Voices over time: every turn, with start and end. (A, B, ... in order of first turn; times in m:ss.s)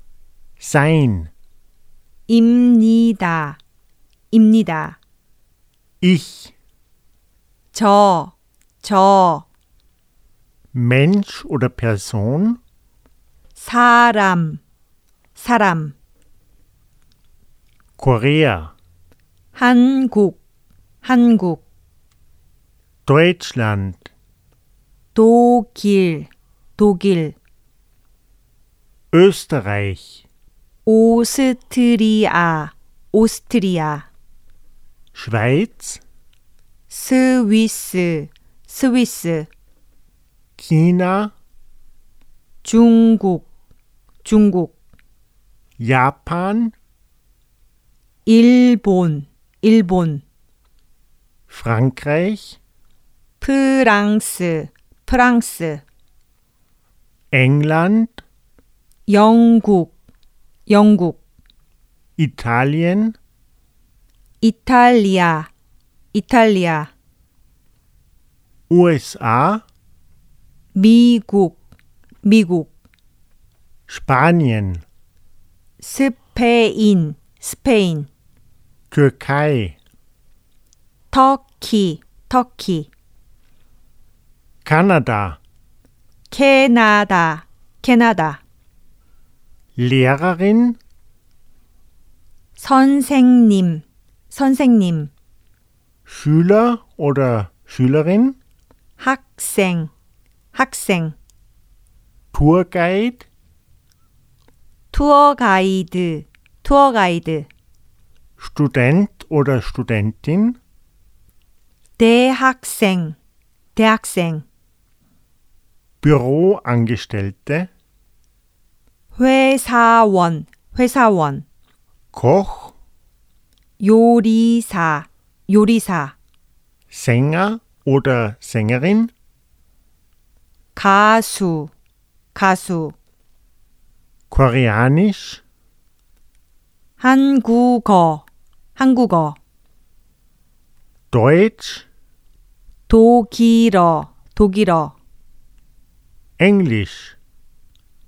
0:00.6-0:01.3 A
0:02.3-0:03.6 B
0:04.3-0:05.0 B
0:06.0-0:06.5 A
0:07.7-0:09.4 B
0:10.7-0:12.6 A
0:13.6-0:14.6 B
0:15.4-0:15.9 B
0:18.0-0:18.7 A
0:19.5-0:20.4 B
0:21.0-0:21.6 B
0:23.0-0:24.0 A
0:25.1-0:27.3 B
0:29.1-0:30.2 A
0:30.8-0:34.1 B
0:35.1-0:36.0 A
0:36.9-0:39.5 B
0:40.6-0:41.3 A
0:42.6-0:43.5 B
0:44.2-0:44.7 B
0:45.8-0:46.7 A
0:48.2-0:50.2 B
0:51.5-0:52.6 A
0:53.4-0:55.8 B
0:57.3-0:58.2 A
0:59.1-0:59.9 B
1:00.7-1:01.2 B
1:02.2-1:03.2 A
1:04.4-1:05.5 B
1:06.1-1:06.9 B
1:08.7-1:09.6 A
1:10.7-1:11.6 B
1:12.2-1:12.7 B
1:13.9-1:14.8 A
1:15.8-1:18.1 B
1:18.9-1:19.8 A
1:21.1-1:22.9 B
1:24.6-1:25.4 A
1:26.3-1:28.4 B
1:29.8-1:30.8 A
1:32.6-1:35.1 B
1:36.1-1:38.4 A
1:39.0-1:39.9 B
1:40.5-1:41.1 B
1:42.3-1:43.2 A
1:44.9-1:47.5 B
1:48.4-1:50.6 A
1:52.0-1:53.1 B
1:53.8-1:54.4 B
1:56.0-1:57.7 A
1:59.1-2:01.4 B
2:02.1-2:02.7 A
2:03.8-2:06.1 B
2:06.9-2:09.1 A
2:10.7-2:11.7 B
2:12.3-2:12.9 B
2:14.3-2:15.4 A
2:17.0-2:18.2 B
2:18.8-2:19.4 B
2:21.1-2:21.8 A
2:22.9-2:24.9 B
2:26.4-2:27.1 A